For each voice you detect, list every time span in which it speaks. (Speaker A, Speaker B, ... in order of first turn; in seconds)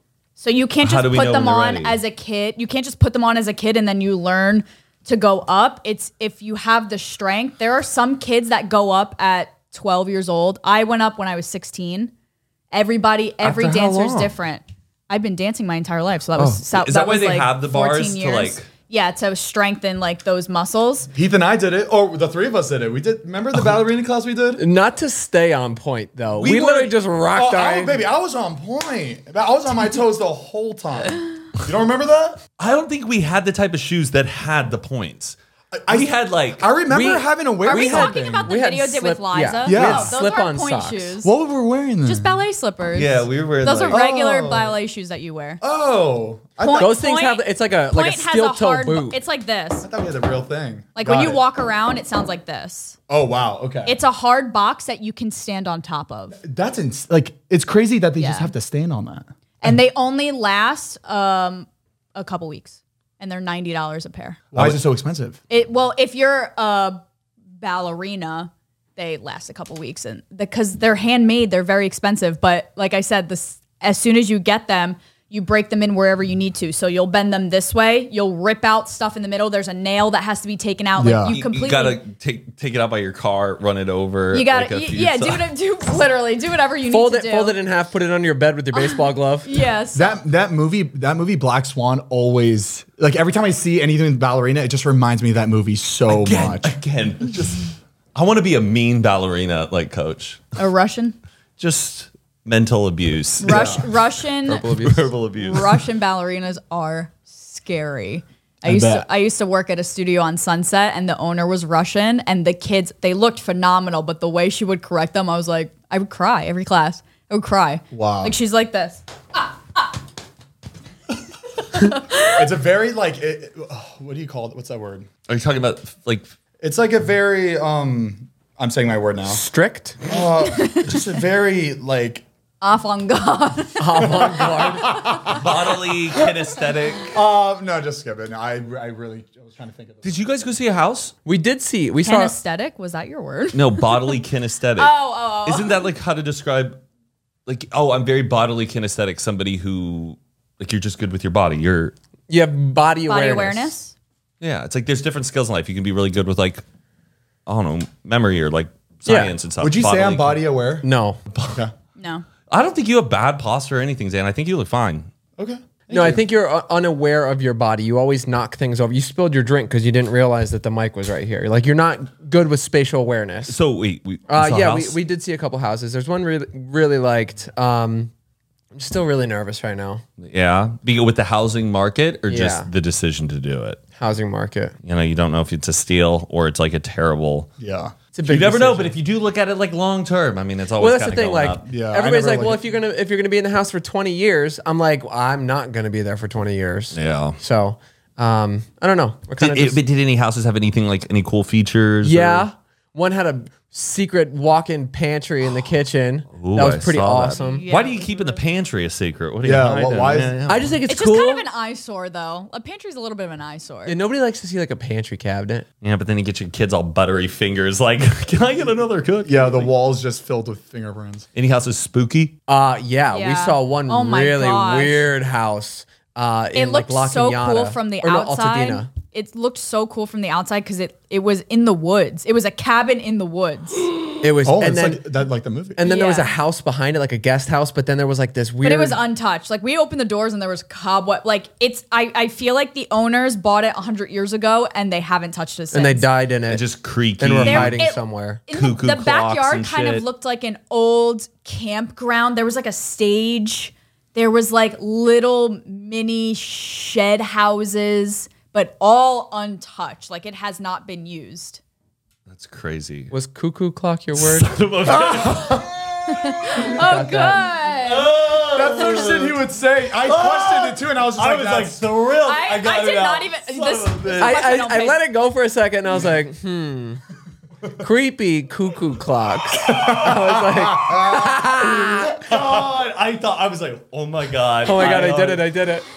Speaker A: 0.4-12.1, 12.7-21.1, 37.6-41.3, 42.0-45.6, 46.6-49.9, 51.0-53.0, 53.9-56.4, 58.2-58.5, 59.6-64.5, 65.5-67.0, 67.6-82.0, 84.3-87.5, 88.7-90.2, 100.6-101.2, 103.4-104.7, 105.4-119.8, 121.7-122.4, 130.5-131.0, 132.6-135.4, 142.0-144.2, 144.8-145.8, 153.1-153.9, 162.0-162.2, 207.3-208.4, 210.9-213.9, 223.1-225.1, 226.5-233.9, 235.8-236.3, 238.6-246.1, 247.4-261.6, 266.2-268.1, 268.8-269.1, 272.2-275.0
Speaker B: 0.8-2.0, 13.4-14.3, 16.4-18.7, 32.6-35.4, 35.9-36.7, 42.9-44.0, 81.2-85.5, 96.1-100.5, 101.6-105.8, 125.3-126.3, 135.3-137.2, 140.0-141.1, 143.5-146.8, 147.4-151.9, 154.4-156.6, 157.4-160.4, 161.3-161.6, 162.5-165.1, 173.5-175.0, 180.2-183.8, 184.8-187.5, 188.3-191.6, 196.9-197.4, 199.4-202.5, 206.3-210.8, 215.8-219.7, 221.3-222.4, 246.5-247.8, 248.5-250.0, 262.3-263.1, 264.1-265.7, 267.8-269.4, 270.0-274.6, 279.6-280.0, 282.1-285.4
Speaker C: 21.1-24.6, 26.4-32.4, 35.7-38.5, 39.6-40.1, 41.2-42.4, 43.9-44.8, 45.6-47.0, 49.8-51.4, 53.1-54.0, 56.4-59.8, 64.5-65.4, 81.0-81.3, 89.9-96.8, 103.4-103.8, 108.6-109.1, 117.9-118.3, 122.2-125.1, 126.6-129.4, 130.0-132.2, 134.0-135.4, 137.1-140.1, 159.6-160.8, 165.4-166.2, 187.6-188.1, 191.6-192.6, 209.4-210.5, 219.2-221.2, 234.4-235.8, 264.8-266.6, 268.5-271.9, 279.6-282.9
Speaker D: 24.6-28.0, 36.9-41.1, 46.8-49.2, 86.9-89.5, 104.5-105.1, 129.3-130.0, 133.8-134.9, 141.2-142.3, 152.3-153.8, 159.1-159.3, 160.8-161.2, 165.9-173.6, 174.3-178.1, 178.7-180.0, 182.3-182.7, 184.0-184.7, 188.1-188.9, 190.8-199.8, 202.0-207.6, 209.7-211.4, 213.8-215.7, 222.5-228.9, 234.2-235.0, 235.8-239.0, 245.7-246.6, 247.2-248.4, 263.1-264.5, 266.8-267.5, 274.2-277.0, 277.8-282.2, 284.6-285.8